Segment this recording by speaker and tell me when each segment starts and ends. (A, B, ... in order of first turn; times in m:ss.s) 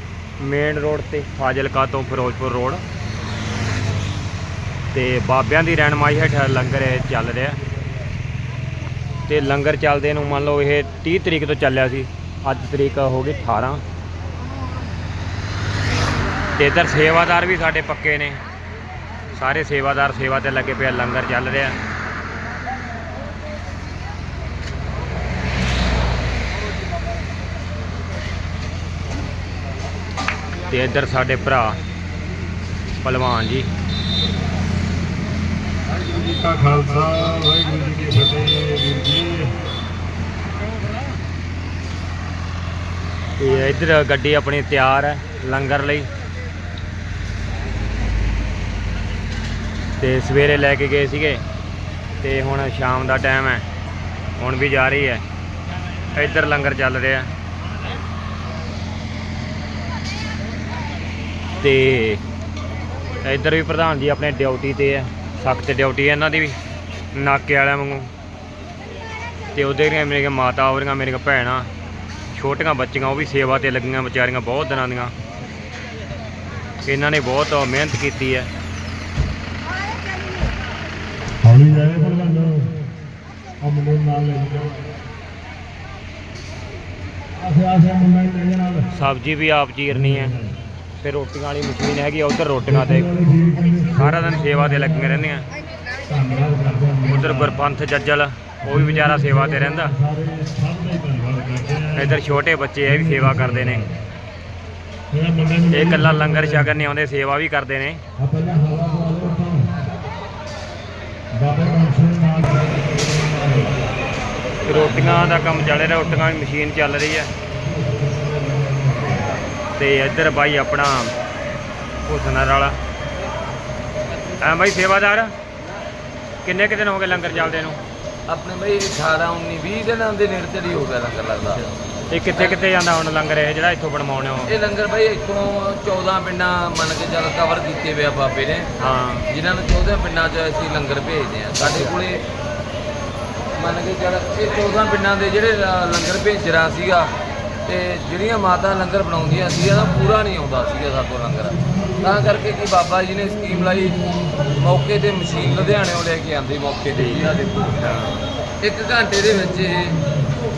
0:00.4-0:02.8 A
0:04.9-0:07.6 A
0:09.3-0:13.8 A
0:16.6-0:18.4 A
0:19.3-0:21.8 A
0:30.7-0:31.8 A
0:33.0-0:33.7 A
0:36.0-0:39.5 B
0:43.4-0:46.1 A
0:50.0-0:51.4 A
0:52.2-0:53.6 A
0:54.4-0:55.2 A
0:56.1-0:57.3 A
1:01.6-1:02.2 A
1:03.2-1:06.5 A
1:07.1-1:08.1 A
1:09.5-1:11.7 A
1:12.3-1:15.1 A
1:16.8-1:18.5 A
1:21.4-1:22.7 B
1:23.6-1:24.8 B
1:27.5-1:28.8 B
1:28.9-1:30.4 A
1:31.0-1:35.5 A
1:36.1-1:37.0 B
1:37.0-1:40.0 A
1:40.1-1:41.9 B
1:41.9-1:43.9 A
1:45.2-1:45.6 B
1:45.6-1:48.0 A
1:48.3-1:49.7 B
1:51.4-1:53.2 B
1:54.6-1:57.3 A
1:59.8-2:01.1 A
2:02.1-2:02.8 A
2:04.4-2:05.3 A
2:06.4-2:07.8 A
2:08.3-2:11.8 C
2:12.1-2:14.5 A
2:12.3-2:12.6 C
2:14.4-2:18.7 C
2:18.8-2:19.2 A
2:19.3-2:22.2 C
2:21.6-2:21.9 A
2:23.6-2:27.1 C
2:27.6-2:37.6 C
2:36.9-2:38.1 A
2:38.6-2:40.0 C